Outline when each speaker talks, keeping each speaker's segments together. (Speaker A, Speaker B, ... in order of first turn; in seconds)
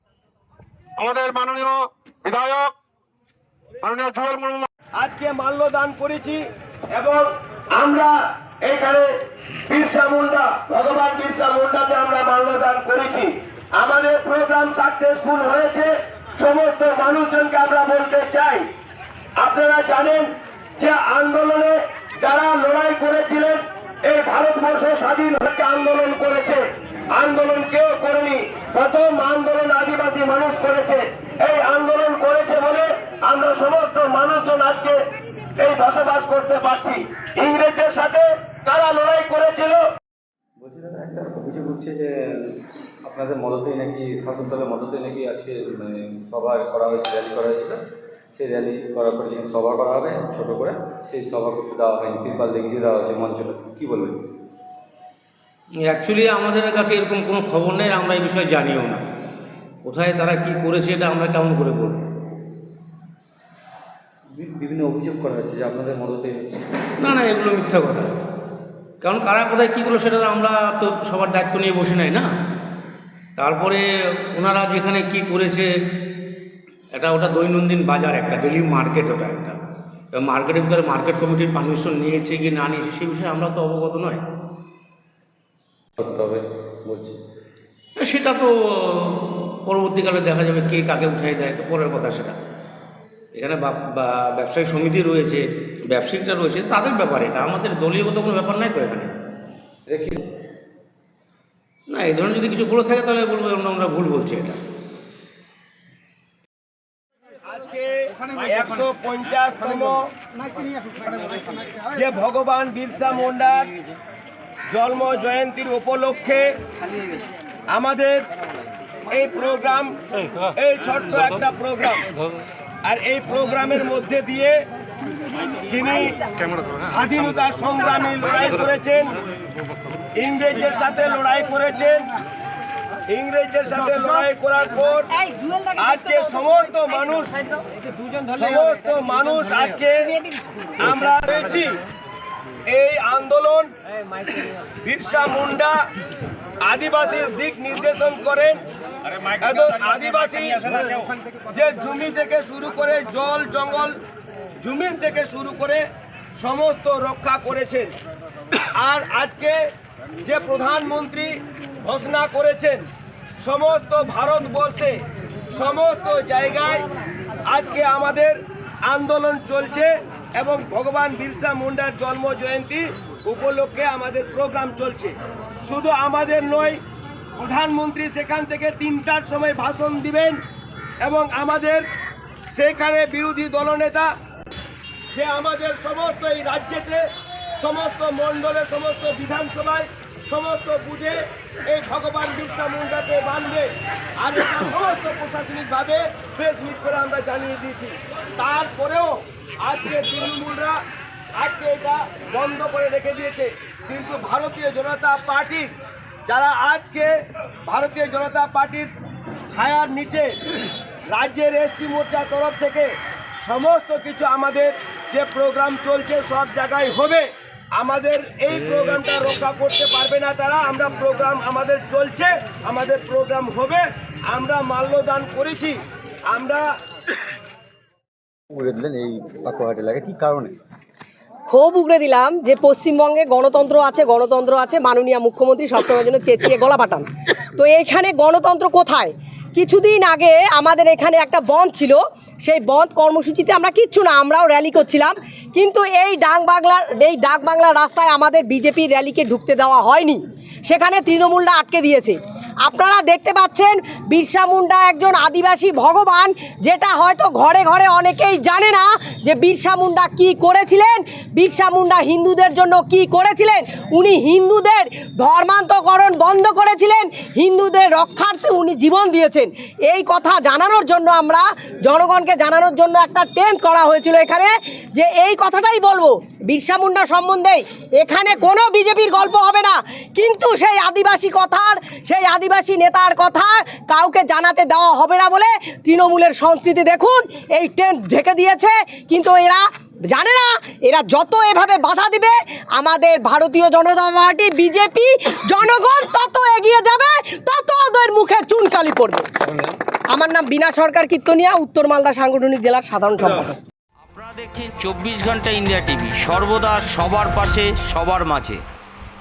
Speaker A: 1.0-2.7, 3.8-4.7
Speaker B: 5.0-6.4, 6.9-9.1, 9.7-18.6, 19.4-26.6, 27.1-35.0, 35.6-39.8, 107.5-110.0, 111.9-113.7, 114.7-116.5, 117.7-118.2, 119.1-119.9, 120.5-122.0, 122.8-124.6, 125.6-126.2, 126.8-129.2, 130.1-132.1, 133.1-135.1, 135.8-137.4, 138.3-140.1, 140.8-141.8, 142.7-143.7, 144.8-145.8, 146.6-148.6, 149.3-154.0, 154.6-155.8, 156.4-157.9, 158.8-159.6, 160.2-162.8, 163.4-165.0, 165.5-166.8, 167.5-176.8, 177.4-180.4, 181.0-181.8, 182.4-184.1, 185.1-187.0, 187.6-200.8, 201.3-205.7, 206.3-207.1, 207.7-208.9, 209.5-210.3, 211.1-212.9, 213.4-226.6
Speaker C: 40.6-47.8, 48.3-54.2, 64.3-66.8, 86.0-87.2, 99.9-100.2, 228.5-230.6
Speaker D: 55.8-59.0, 59.8-62.1, 67.0-68.1, 69.0-72.3, 73.4-73.8, 74.3-75.7, 76.9-79.6, 80.2-84.2, 88.0-92.3, 93.3-99.1, 101.9-104.6
Speaker E: 135.2-135.7, 231.5-299.3, 300.1-303.6
Speaker F: 304.1-308.6